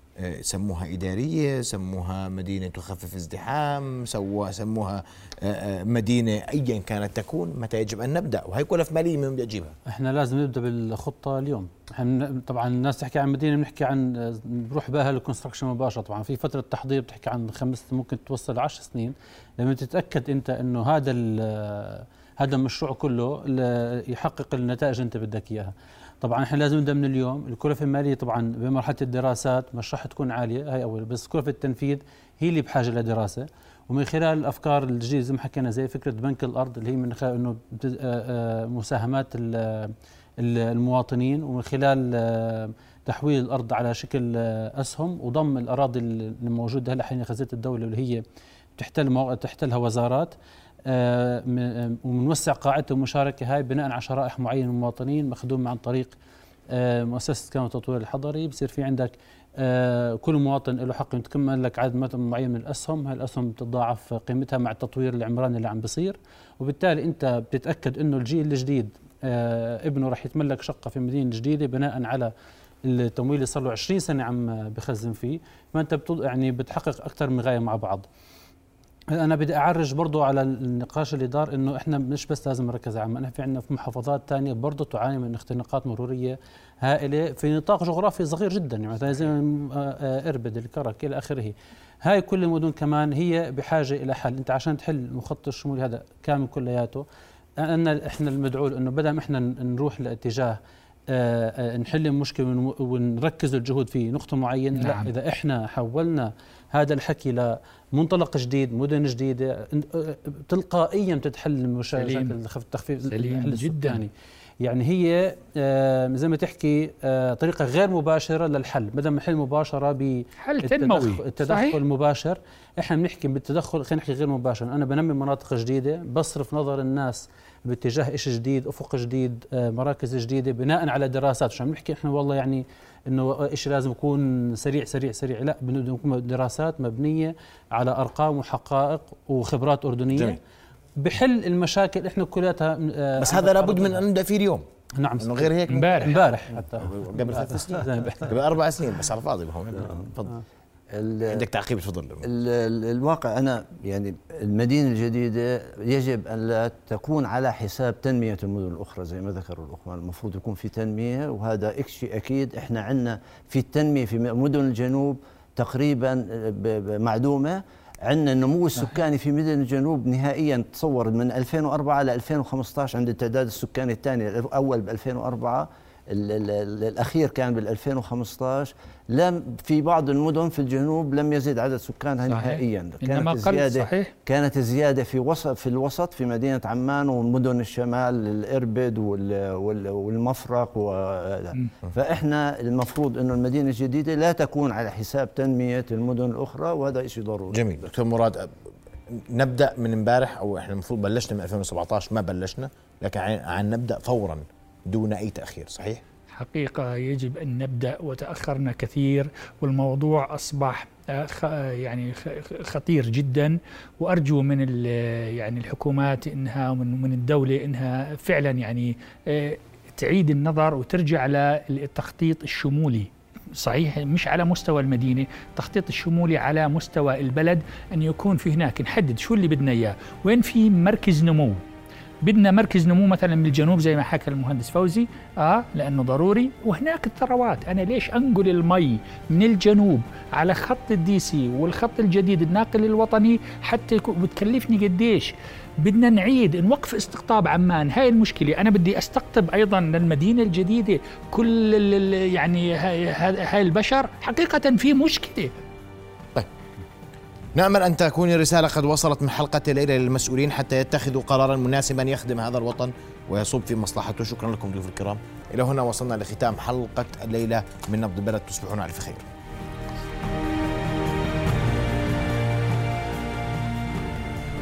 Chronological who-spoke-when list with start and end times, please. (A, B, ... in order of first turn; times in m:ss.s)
0:00.2-0:09.8 A
0:09.9-0:48.2 B
0:48.8-0:50.3 B
0:50.9-0:56.2 B
0:56.7-1:12.3 B
1:12.8-1:18.1 B
1:19.1-1:37.0 B
1:37.6-1:40.6 B
1:41.1-1:54.1 B
1:44.8-1:45.1 C
1:52.0-1:52.3 C
1:53.1-1:54.0 C
1:54.6-2:20.4 B
2:00.4-2:01.8 C
2:20.1-2:20.4 A
2:21.0-2:24.0 B
2:23.2-2:24.6 A
2:25.0-2:28.3 B
2:25.2-2:26.1 A
2:25.7-2:26.2 C
2:26.8-2:30.4 A
2:30.9-2:31.5 D
2:31.3-2:32.3 A
2:32.2-3:17.9 D
3:02.3-3:04.1 C
3:17.5-3:18.5 A
3:19.1-3:26.0 A
3:26.3-3:51.6 C
3:52.2-4:15.6 C
4:17.6-4:29.3 A